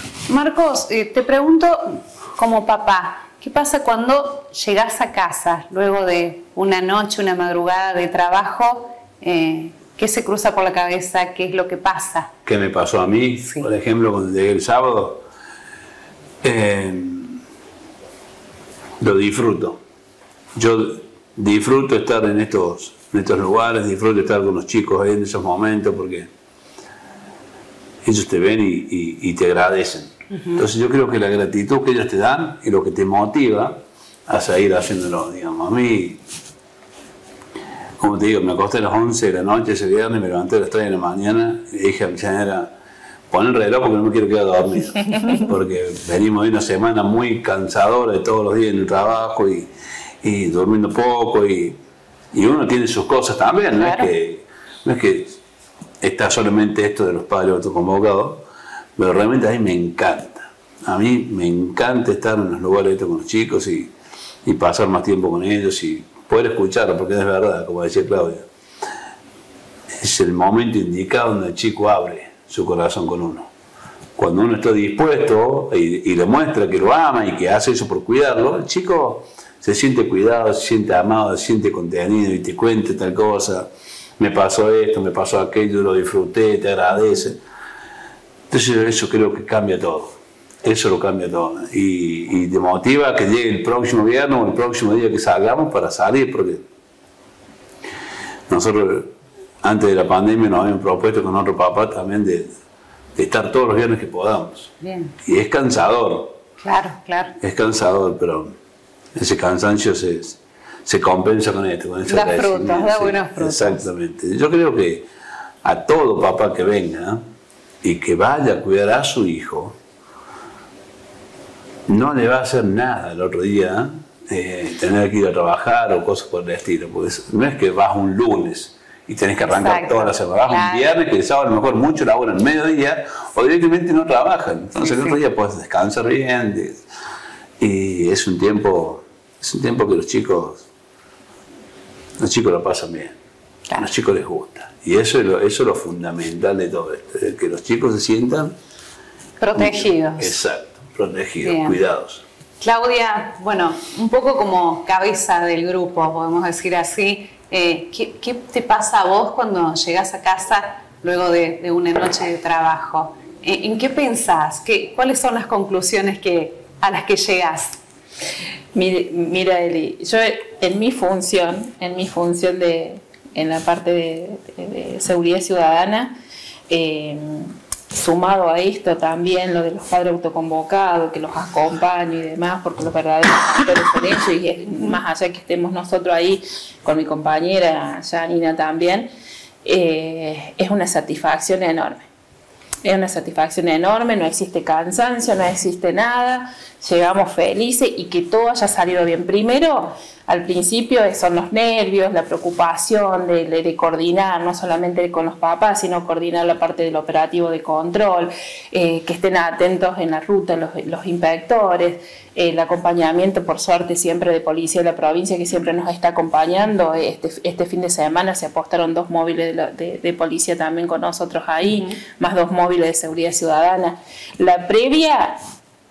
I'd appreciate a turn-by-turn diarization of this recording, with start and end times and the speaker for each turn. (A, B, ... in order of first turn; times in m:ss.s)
0:00.3-0:12.3 A
0:12.4-0:15.2 B
0:16.4-0:17.4 B
0:19.0-0:19.8 B
0:20.5-0:26.3 B
0:28.0-0:36.2 B
0:38.0-0:42.7 B
0:43.3-0:49.7 B
0:50.2-0:51.8 B
0:52.3-0:55.4 B
0:53.8-0:54.1 A
0:56.0-0:58.4 B
0:59.0-1:03.9 B
1:04.4-1:08.4 B
1:10.0-1:13.5 B
1:14.2-1:27.4 B
1:28.5-1:36.6 B
1:38.5-1:42.5 B
1:43.2-1:44.7 B
1:44.8-1:45.1 A
1:45.2-1:46.4 B
1:46.6-1:47.3 A
1:47.4-1:48.5 B
1:49.1-1:55.1 B
1:52.1-1:53.8 A
1:55.6-1:57.2 B
1:57.8-1:59.8 B
2:01.9-2:16.8 B
2:09.4-2:10.9 A
2:14.8-2:15.2 A
2:17.6-2:20.6 B
2:22.2-2:23.2 B
2:23.8-2:28.5 B
2:29.4-2:30.3 A
2:29.5-2:32.2 B
2:31.4-2:31.8 A
2:32.6-2:47.8 A
2:48.7-2:56.2 C
2:56.7-3:09.1 C
3:09.6-3:12.1 C
3:12.8-3:45.4 C